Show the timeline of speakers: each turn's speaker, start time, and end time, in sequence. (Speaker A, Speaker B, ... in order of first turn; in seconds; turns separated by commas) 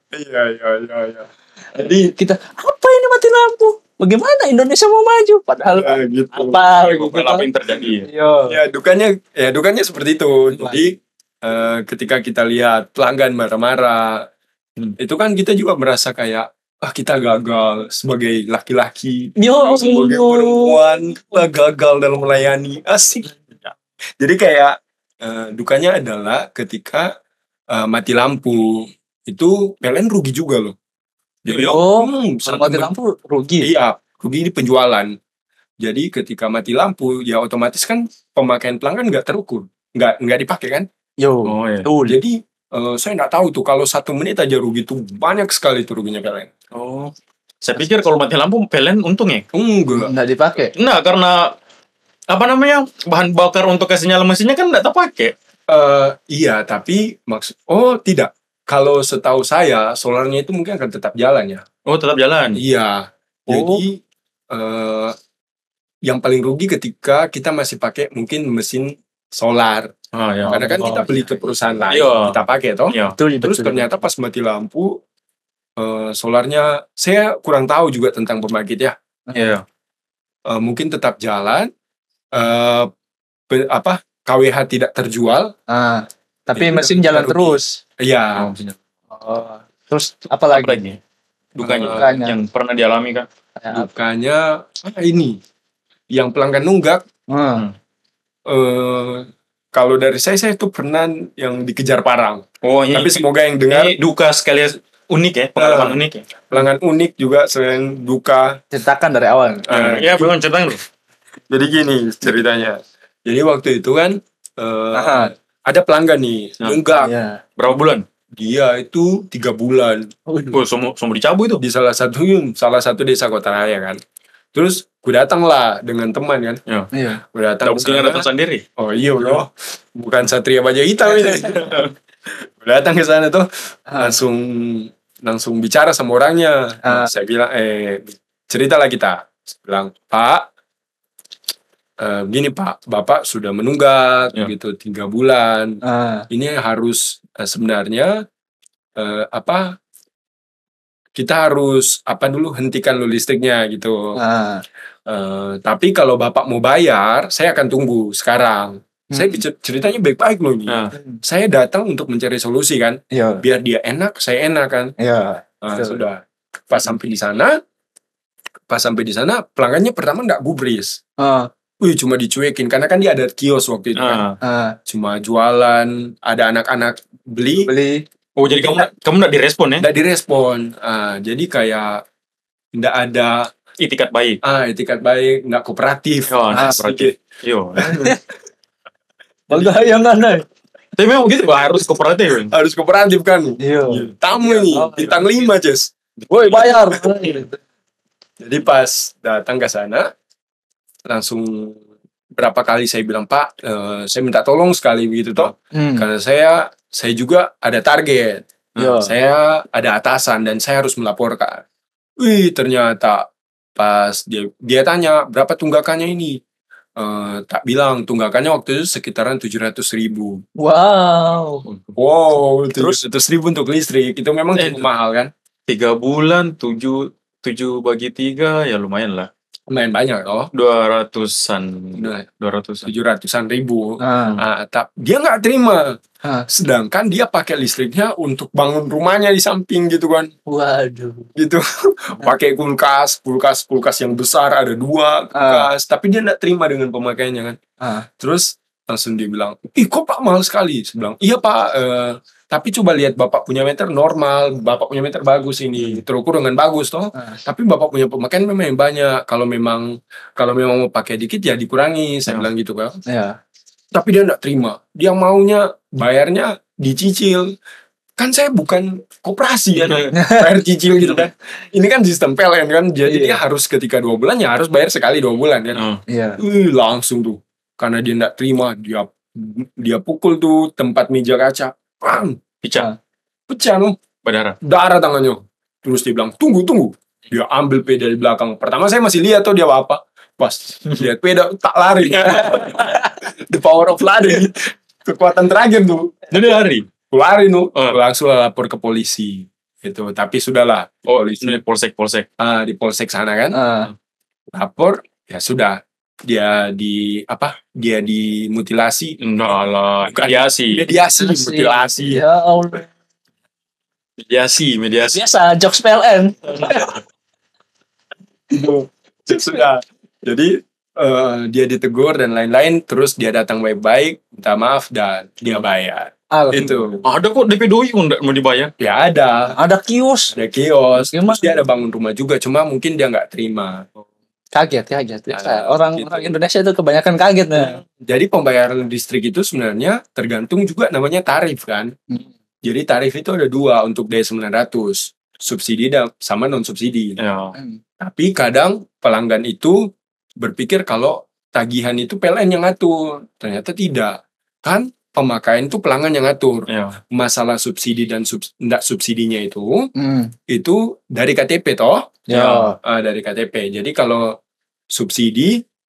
Speaker A: 0.1-2.1, Speaker B: 2.2-7.5, Speaker A: 5.7-6.6, Speaker C: 6.8-8.1, Speaker B: 8.1-8.6, Speaker A: 8.5-14.3, Speaker A: 15.0-27.1, Speaker B: 19.4-21.2, Speaker A: 27.7-30.8, Speaker A: 31.4-32.9, Speaker C: 31.5-31.8, Speaker B: 31.6-33.7, Speaker A: 33.6-35.2, Speaker A: 35.8-40.9, Speaker B: 41.2-42.2, Speaker C: 41.5-41.9, Speaker A: 42.0-46.5, Speaker C: 46.7-49.5, Speaker A: 49.5-50.1, Speaker B: 50.0-50.7, Speaker C: 50.8-51.5, Speaker C: 52.3-55.4, Speaker A: 55.7-61.6, Speaker C: 61.9-62.6, Speaker A: 62.5-65.2, Speaker B: 63.5-63.8, Speaker A: 66.0-69.9, Speaker C: 70.1-70.8, Speaker B: 70.5-71.3, Speaker A: 70.5-75.0, Speaker C: 71.9-72.4, Speaker C: 72.9-73.2, Speaker B: 73.1-73.9, Speaker A: 75.8-79.0, Speaker B: 79.3-79.6, Speaker C: 79.3-79.6, Speaker A: 80.5-81.7, Speaker A: 82.3-82.9, Speaker A: 83.5-85.5, Speaker B: 85.7-87.8, Speaker A: 86.5-88.5, Speaker C: 88.4-88.8, Speaker B: 89.1-90.8, Speaker C: 90.5-91.0, Speaker A: 91.6-92.2, Speaker C: 91.6-93.3, Speaker B: 91.9-92.4, Speaker B: 93.6-93.9, Speaker A: 93.7-95.4, Speaker A: 96.1-97.0, Speaker B: 97.3-97.7, Speaker A: 98.5-104.0, Speaker C: 102.6-106.2, Speaker A: 105.6-108.6, Speaker B: 108.7-109.7, Speaker A: 109.7-110.3, Speaker C: 109.7-110.8, Speaker A: 111.5-117.2, Speaker B: 114.9-115.3, Speaker B: 116.9-117.4, Speaker C: 117.6-118.0, Speaker A: 118.3-120.1, Speaker B: 120.3-120.6, Speaker C: 120.5-121.6, Speaker A: 121.6-124.0, Speaker A: 124.5-126.6, Speaker B: 126.9-127.2, Speaker A: 127.2-140.5, Speaker C: 127.6-128.7, Speaker B: 131.2-131.6, Speaker B: 133.9-134.2, Speaker B: 136.8-137.1, Speaker A: 142.0-148.2, Speaker B: 145.8-146.3, Speaker A: 149.0-149.8, Speaker A: 151.2-154.2, Speaker B: 154.2-154.6, Speaker A: 155.1-164.9, Speaker B: 159.1-159.4, Speaker C: 160.7-160.9, Speaker B: 160.9-161.2, Speaker B: 163.1-163.4, Speaker B: 165.0-166.0, Speaker A: 165.6-167.6, Speaker A: 168.7-171.0, Speaker B: 171.2-171.5, Speaker A: 171.8-174.2, Speaker C: 174.0-174.4, Speaker B: 174.4-174.8, Speaker A: 174.9-177.7, Speaker B: 177.6-178.1, Speaker C: 178.4-179.9, Speaker A: 179.8-182.0, Speaker A: 182.7-183.5, Speaker C: 183.8-184.4, Speaker A: 184.4-187.1, Speaker C: 186.3-187.9, Speaker B: 186.5-186.8, Speaker A: 187.8-188.2, Speaker B: 187.8-188.2, Speaker A: 189.5-189.9, Speaker B: 189.5-190.4, Speaker C: 191.0-192.5, Speaker A: 192.5-195.9, Speaker B: 193.6-195.4, Speaker C: 196.2-197.1, Speaker B: 196.3-197.6, Speaker A: 198.4-200.1, Speaker A: 201.1-201.8, Speaker A: 202.3-211.7, Speaker B: 205.7-206.1, Speaker B: 208.8-209.1, Speaker A: 212.2-216.4, Speaker A: 217.0-220.4, Speaker B: 220.6-221.7, Speaker A: 221.9-225.3, Speaker C: 224.6-224.9, Speaker C: 225.7-229.3, Speaker A: 229.7-230.5, Speaker C: 230.5-232.9, Speaker A: 232.0-232.3, Speaker A: 232.9-240.3, Speaker B: 234.0-234.4, Speaker B: 240.5-241.3, Speaker A: 241.4-247.6, Speaker B: 245.3-245.7, Speaker B: 247.8-248.1, Speaker A: 248.2-263.0, Speaker B: 263.1-263.4, Speaker A: 263.9-267.6, Speaker A: 268.2-275.8, Speaker B: 270.1-270.5, Speaker B: 273.1-273.4, Speaker C: 275.8-276.0, Speaker B: 276.1-276.4, Speaker A: 276.4-282.4, Speaker C: 282.6-282.9, Speaker A: 283.5-284.0, Speaker C: 284.2-284.6, Speaker A: 284.6-296.4, Speaker C: 296.3-296.9, Speaker A: 297.1-301.6, Speaker C: 301.1-302.3, Speaker A: 302.4-303.6, Speaker B: 303.5-303.9, Speaker A: 304.5-309.2, Speaker C: 309.2-310.9, Speaker A: 310.1-312.2, Speaker B: 311.1-312.9, Speaker C: 314.2-315.2, Speaker B: 315.0-317.0, Speaker A: 318.5-327.1, Speaker B: 326.3-326.9, Speaker C: 327.0-328.7, Speaker A: 328.8-329.6, Speaker B: 329.6-330.4, Speaker A: 330.3-333.9, Speaker B: 330.9-331.6, Speaker B: 334.6-337.8, Speaker A: 335.3-336.3, Speaker A: 337.6-342.0, Speaker A: 342.6-347.2, Speaker C: 347.2-347.6, Speaker A: 348.0-359.9, Speaker C: 356.7-357.0, Speaker B: 359.9-360.3, Speaker A: 360.5-362.3, Speaker B: 362.3-362.8, Speaker C: 362.3-362.7, Speaker A: 362.8-364.4, Speaker A: 364.9-365.6